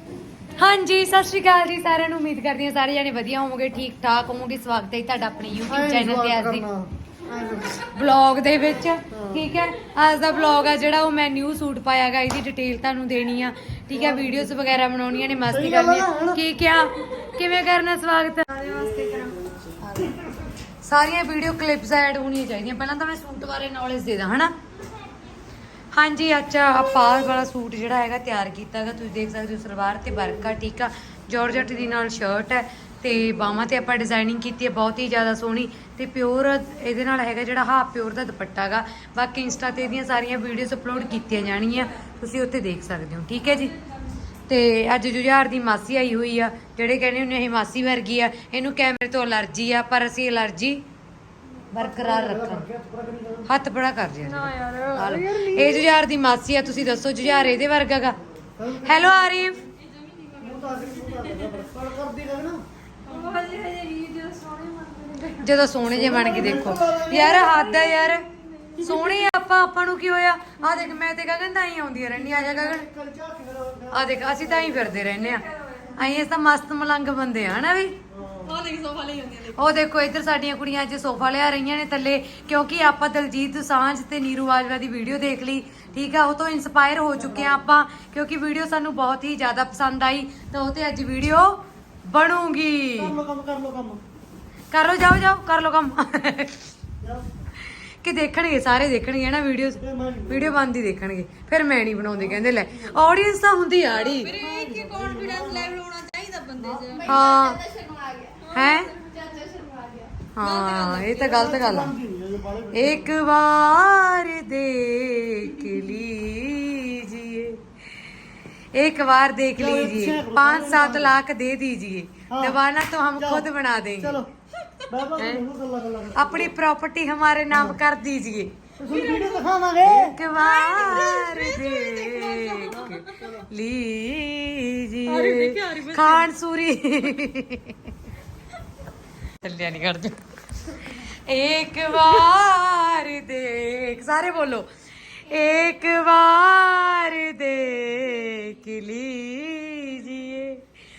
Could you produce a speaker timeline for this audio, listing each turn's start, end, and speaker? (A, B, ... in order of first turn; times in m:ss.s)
0:00.6-0:06.6 A
0:05.7-0:07.8 B
0:07.8-0:18.5 A
0:09.1-0:09.5 B
0:13.9-0:14.6 B
0:15.5-0:16.4 B
0:18.6-0:19.4 C
0:18.6-0:20.3 B
0:19.8-0:20.2 A
0:20.8-0:24.5 A
0:25.9-0:43.8 A
0:44.5-0:50.8 A
0:51.7-0:52.7 A
0:51.8-0:53.6 B
0:53.5-0:58.2 A
0:54.3-0:55.7 C
0:58.4-0:59.1 B
0:58.8-0:59.6 A
0:59.8-1:01.5 C
1:00.4-1:02.6 B
1:03.1-1:05.5 C
1:05.4-1:08.3 A
1:05.9-1:07.5 B
1:07.4-1:09.0 C
1:08.8-1:12.9 A
1:12.2-1:15.0 B
1:13.9-1:15.4 A
1:15.4-1:15.9 C
1:16.0-1:18.0 A
1:18.1-1:18.7 B
1:18.4-1:19.6 C
1:19.6-1:33.2 A
1:27.2-1:27.6 B
1:33.0-1:34.0 B
1:34.7-1:36.6 A
1:37.0-1:37.3 B
1:38.0-1:44.4 A
1:39.8-1:40.6 B
1:42.1-1:43.0 B
1:44.1-1:51.3 C
1:44.3-1:45.8 B
1:46.6-1:47.2 B
1:47.0-1:47.6 A
1:48.5-1:49.0 A
1:50.4-1:51.9 A
1:51.2-1:53.2 B
1:52.7-1:57.6 A
1:58.8-2:04.2 A
1:59.6-2:01.2 B
2:02.3-2:02.6 B
2:03.2-2:03.5 B
2:04.0-2:04.3 B
2:04.9-2:06.6 B
2:05.2-2:05.4 A
2:06.2-2:08.5 A
2:07.5-2:07.8 B
2:08.8-2:10.2 B
2:08.9-2:09.4 C
2:09.8-2:17.9 A
2:10.3-2:13.2 C
2:12.6-2:13.5 B
2:15.1-2:16.3 C
2:19.4-2:20.2 A
2:20.8-2:30.6 A